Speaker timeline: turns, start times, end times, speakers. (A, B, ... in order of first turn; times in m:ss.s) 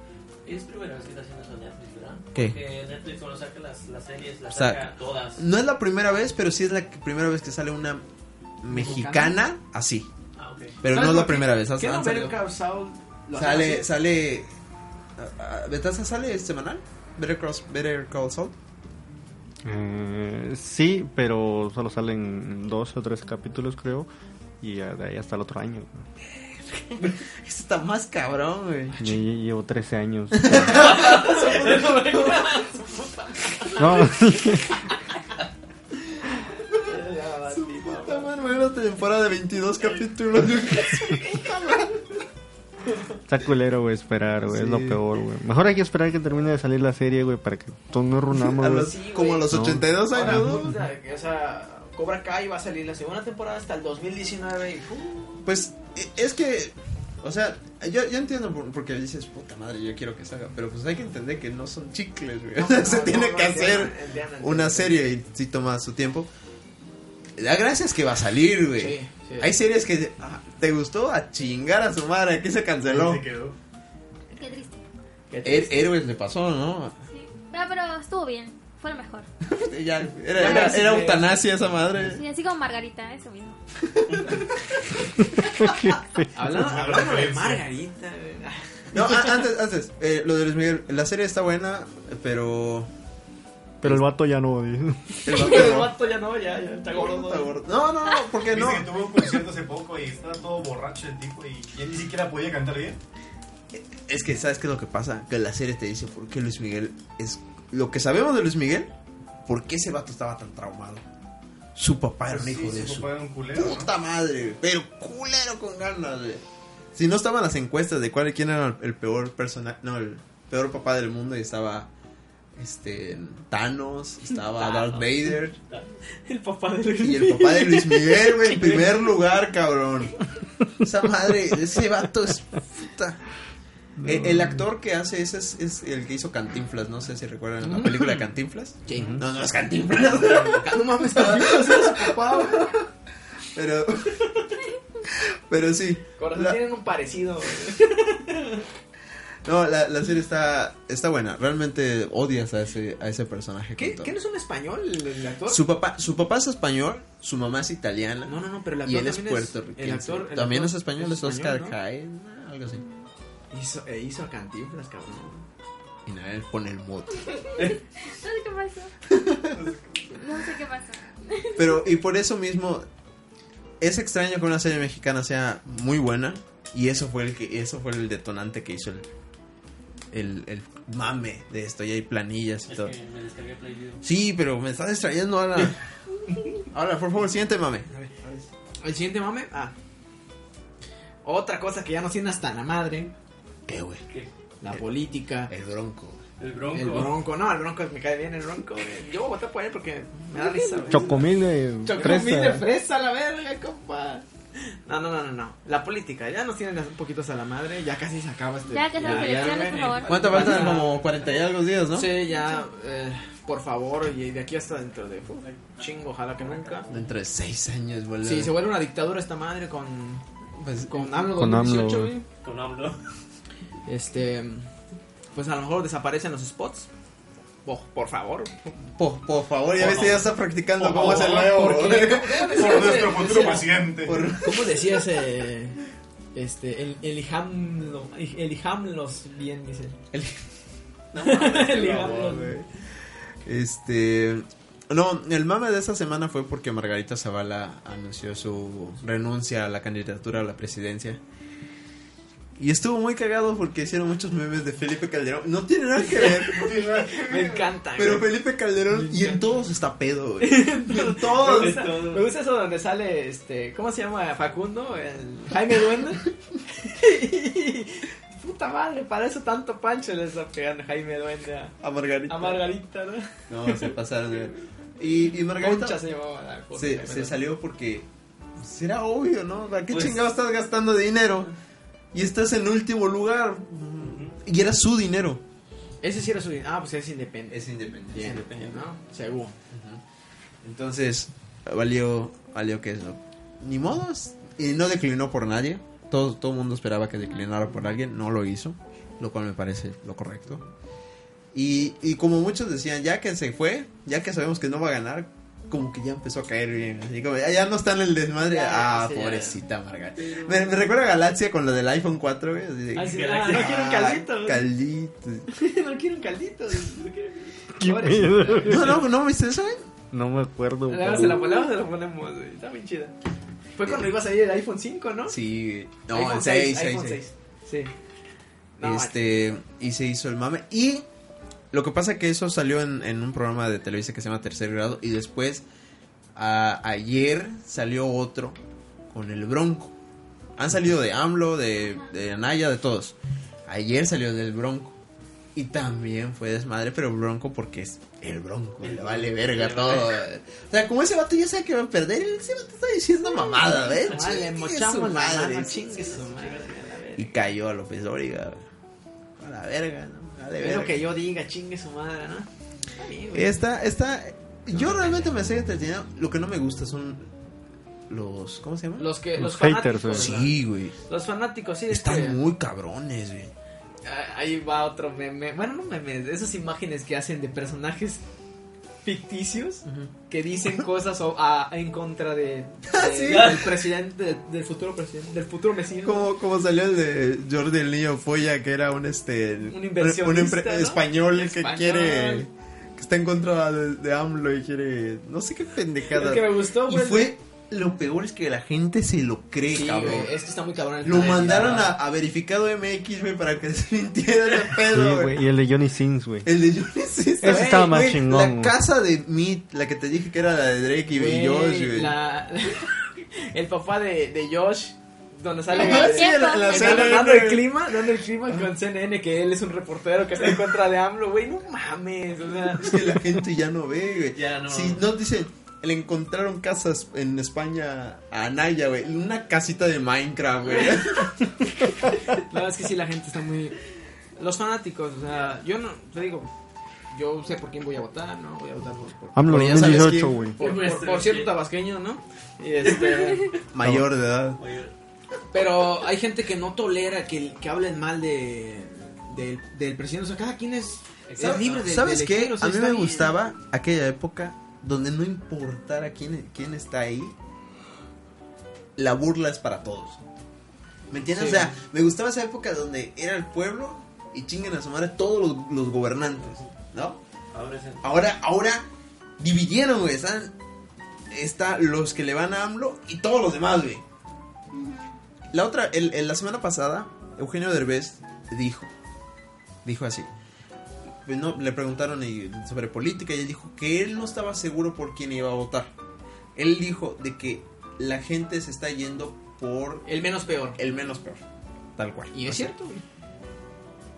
0:00.4-0:05.4 A
0:04.5-0:08.0 B
0:08.6-0:10.1 B
0:08.7-0:09.4 C
0:10.4-0:10.8 A
0:10.8-0:12.4 B
0:10.8-0:13.9 C
0:13.3-0:14.5 B
0:15.2-0:18.6 B
0:19.6-0:24.1 D
0:24.6-0:26.0 D
0:26.3-0:29.1 B
0:29.0-0:31.0 D
0:30.3-0:31.3 B
0:30.7-0:32.8 A
0:31.1-0:32.6 C
0:33.7-0:34.8 D
0:36.7-0:38.3 C
0:37.6-0:41.9 B
0:41.1-0:41.7 C
0:43.3-0:48.9 D
0:44.5-0:45.0 B
0:48.4-0:50.8 B
0:48.8-0:55.4 C
0:49.5-0:50.6 D
0:55.4-1:06.3 B
1:02.5-1:05.0 C
1:07.4-1:13.2 B
1:08.8-1:09.5 C
1:12.8-1:13.5 E
1:14.3-1:14.8 F
1:15.3-1:15.9 C
1:15.4-1:16.9 B
1:17.1-1:19.3 F
1:19.5-1:22.2 B
1:20.3-1:21.4 C
1:22.0-1:23.6 F
1:23.9-1:24.4 B
1:25.4-1:26.3 D
1:26.3-1:29.3 C
1:26.5-1:27.6 E
1:28.9-1:32.9 B
1:33.8-1:35.5 D
1:35.2-1:36.0 B
1:35.3-1:37.5 C
1:36.9-1:39.0 B
1:38.4-1:43.0 E
1:43.7-1:48.9 B
1:49.4-1:51.0 B
1:51.8-1:56.4 B
1:52.3-1:53.9 E
1:56.9-2:01.9 B
2:02.6-2:05.6 B
2:04.6-2:05.1 C
2:05.7-2:06.0 A
2:06.2-2:08.9 C
2:07.0-2:10.2 B
2:10.8-2:13.2 B
2:14.0-2:14.6 D
2:14.0-2:22.7 B
2:17.6-2:18.1 C
2:18.8-2:19.3 C
2:20.2-2:22.8 C
2:23.5-2:24.5 B
2:25.0-2:26.6 B
2:26.2-2:28.6 C
2:29.4-2:34.1 B
2:33.8-2:35.6 C
2:35.5-2:42.8 B
2:38.2-2:41.8 C
2:43.5-2:45.4 C
2:46.0-2:47.3 B
2:47.4-2:48.9 F
2:49.1-2:49.7 B
2:49.5-2:49.8 E
2:50.1-2:51.8 F
2:51.6-2:52.8 B
2:53.8-2:59.1 B
3:00.1-3:03.0 B
3:02.7-3:04.0 A
3:04.0-3:05.8 B
3:06.7-3:08.4 B
3:08.8-3:09.7 C
3:11.2-3:13.1 C
3:13.7-3:14.0 B
3:14.6-3:15.5 C
3:15.5-3:16.2 B
3:16.4-3:17.2 A
3:16.7-3:21.2 C
3:20.9-3:21.2 A
3:20.9-3:22.6 D
3:21.8-3:31.0 C
3:28.7-3:30.2 F
3:29.0-3:31.0 A
3:30.1-3:32.2 B
3:31.9-3:36.9 C
3:35.5-3:35.8 A
3:36.4-3:37.0 A
3:36.9-3:38.5 B
3:38.2-3:40.2 C
3:40.6-3:41.1 B
3:40.8-3:42.2 C
3:41.4-3:42.1 D
3:42.4-3:43.0 A
3:43.8-3:44.7 C
3:45.3-3:46.9 C
3:47.6-3:48.6 C
3:48.9-3:53.0 B
3:49.8-3:50.2 C
3:50.8-3:54.2 E
3:50.8-3:53.7 C
3:54.0-3:54.9 B
3:54.3-3:55.8 C
3:56.3-4:00.0 C
4:00.1-4:00.4 B
4:01.1-4:02.2 A
4:01.2-4:02.5 C
4:01.7-4:02.7 B
4:03.4-4:11.2 B
4:12.6-4:16.8 B
4:16.1-4:18.3 C
4:16.5-4:17.7 E
4:17.9-4:22.1 B
4:18.9-4:19.6 C
4:20.4-4:31.7 C
4:21.4-4:22.2 A
4:31.8-4:32.6 B
4:32.3-4:33.9 C
4:33.5-4:36.0 B
4:35.6-4:37.4 C
4:36.7-4:38.1 B
4:38.6-4:41.5 B
4:39.9-4:40.2 A
4:42.1-4:45.4 B
4:46.0-4:49.5 C
4:47.5-4:48.8 B
4:49.7-4:50.0 B
4:50.6-5:00.6 B
5:01.5-5:15.5 B
5:08.4-5:09.6 C
5:10.2-5:10.7 C
5:12.9-5:14.6 C
5:13.0-5:13.8 A
5:15.5-5:19.0 C
5:17.8-5:18.9 D
5:18.6-5:19.8 B
5:20.1-5:21.4 D
5:20.9-5:23.1 C
5:23.8-5:25.4 C
5:25.3-5:27.2 B
5:26.1-5:27.9 C
5:28.8-5:29.2 C
5:28.8-5:31.0 B
5:31.7-5:35.6 B
5:36.3-5:38.6 B
5:39.1-5:39.9 B
5:40.6-5:43.1 B
5:43.7-5:45.0 B
5:45.5-5:56.2 B
5:48.8-5:50.2 A
5:53.9-5:57.4 C
5:56.3-5:56.7 A
5:57.2-5:58.6 B
5:59.4-6:01.0 B
6:00.6-6:03.6 C
6:03.3-6:07.3 B
6:04.7-6:05.2 C
6:08.1-6:09.1 B
6:09.0-6:12.4 C
6:09.4-6:10.3 D
6:10.1-6:10.9 B
6:11.9-6:13.5 B
6:14.0-6:18.2 C
6:19.0-6:26.3 C
6:19.8-6:20.1 B
6:22.9-6:23.7 B
6:23.3-6:23.7 A
6:26.0-6:40.3 B
6:29.7-6:32.4 C
6:36.1-6:37.3 C
6:39.7-6:41.9 C
6:41.0-6:45.4 B
6:44.9-6:46.5 D
6:46.4-6:52.1 B
6:47.4-6:48.8 D
6:47.4-6:48.0 C
6:51.1-7:03.2 C
6:55.7-6:57.2 F
6:55.7-6:57.7 B
7:02.8-7:11.5 B
7:04.3-7:05.0 A
7:12.3-7:13.8 C
7:14.4-7:16.5 C
7:17.1-7:23.5 C
7:19.3-7:20.6 D
7:19.4-7:20.5 B
7:20.6-7:21.5 A
7:22.8-7:23.5 A
7:23.7-7:24.6 B
7:23.8-7:24.1 D
7:24.6-7:24.9 A
7:25.5-7:33.3 C
7:31.3-7:31.8 A
7:31.4-7:37.3 B
7:39.0-7:40.2 B
7:41.1-7:47.2 B
7:41.3-7:41.8 C
7:47.5-7:48.0 A
7:48.0-7:48.8 B
7:49.4-7:50.5 B
7:51.3-7:54.0 B
7:54.7-7:55.0 F
7:55.5-7:58.9 B
7:59.8-8:00.3 B
8:01.2-8:05.9 B
8:06.6-8:10.1 B
8:10.0-8:10.8 C
8:10.8-8:11.4 B
8:12.0-8:12.7 B
8:12.3-8:13.0 C